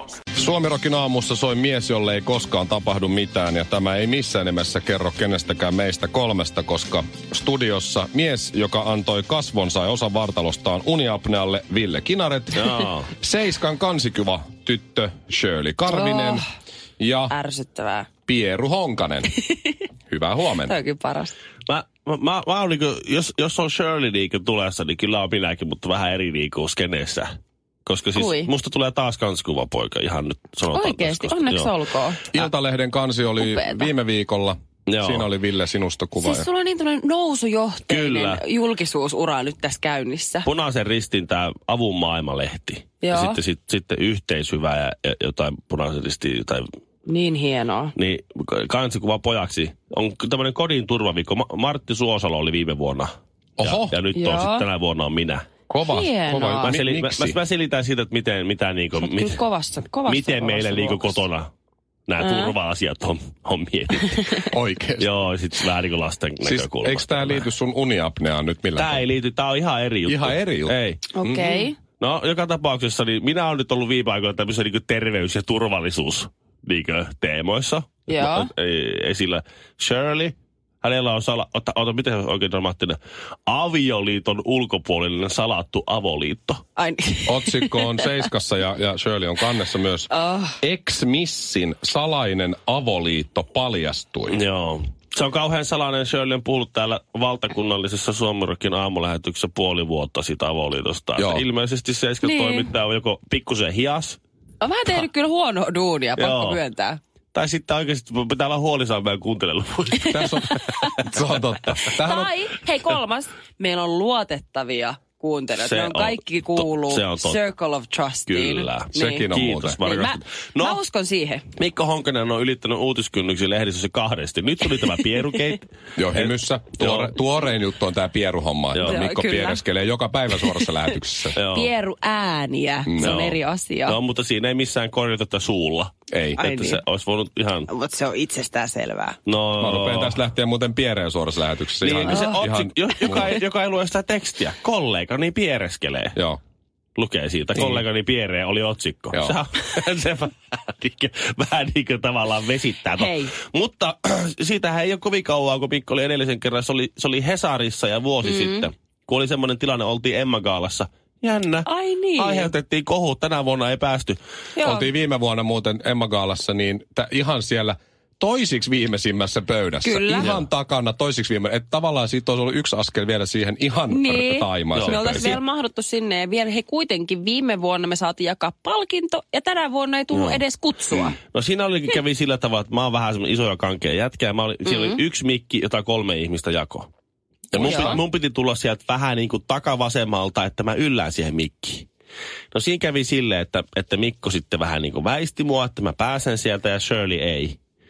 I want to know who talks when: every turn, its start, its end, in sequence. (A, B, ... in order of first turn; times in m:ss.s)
0:00.4-0:16.4 A
0:12.6-0:13.1 B
0:15.9-0:16.4 C
0:17.0-0:17.4 A
0:17.3-0:18.1 C
0:18.3-0:19.3 A
0:20.1-0:20.8 A
0:20.5-0:21.4 C
0:21.7-0:27.4 B
0:27.9-0:31.7 B
0:28.1-0:28.5 C
0:30.7-0:32.2 C
0:32.3-0:36.5 A
0:33.4-0:33.9 C
0:34.9-0:35.3 B
0:36.2-0:40.5 C
0:37.9-0:38.4 B
0:40.4-0:46.6 B
0:43.0-0:43.4 C
0:47.1-0:47.9 C
0:47.9-0:55.5 B
0:53.6-0:54.0 A
0:54.1-0:54.6 C
0:55.7-0:57.4 A
0:55.8-0:56.7 C
0:56.6-0:59.4 B
0:59.0-1:01.2 C
1:00.1-1:01.5 B
1:02.1-1:04.4 B
1:02.2-1:02.6 C
1:04.5-1:05.1 A
1:05.0-1:07.5 B
1:06.4-1:09.1 A
1:08.8-1:11.0 B
1:10.1-1:11.7 A
1:11.1-1:11.8 C
1:12.0-1:26.6 B
1:18.1-1:18.5 C
1:26.8-1:28.1 C
1:27.2-1:30.1 A
1:30.1-1:30.6 C
1:30.6-1:34.4 A
1:34.3-1:44.2 B
1:41.2-1:41.4 A
1:42.2-1:42.7 C
1:44.6-1:47.0 C
1:46.2-1:46.6 B
1:47.3-1:50.2 B
1:50.1-1:50.8 C
1:50.1-1:52.3 A
1:52.0-2:01.4 C
1:55.6-1:57.4 B
1:58.3-2:00.8 B
1:58.9-1:59.8 A
2:01.6-2:07.2 B
2:06.0-2:11.4 A
2:08.8-2:09.6 C
2:10.3-2:10.7 C
2:11.4-2:11.7 B
2:11.5-2:14.0 C
2:12.9-2:13.2 A
2:13.0-2:17.7 B
2:16.1-2:16.4 A
2:16.4-2:16.8 C
2:17.7-2:19.2 C
2:19.2-2:20.2 B
2:19.6-2:23.3 A
2:21.8-2:26.2 B
2:22.1-2:22.4 C
2:27.0-2:44.2 B
2:27.6-2:27.8 A
2:33.0-2:33.3 C
2:38.2-2:38.7 C
2:41.6-2:42.5 C
2:44.6-2:44.9 C
2:44.6-2:55.4 A
2:49.8-2:50.4 C
2:53.9-3:01.2 C
2:54.8-2:55.4 B
3:00.1-3:00.4 B
3:00.9-3:06.9 B
3:04.6-3:05.0 C
3:07.5-3:08.0 A
3:07.5-3:11.9 B
3:07.6-3:08.0 C
3:12.5-3:17.6 B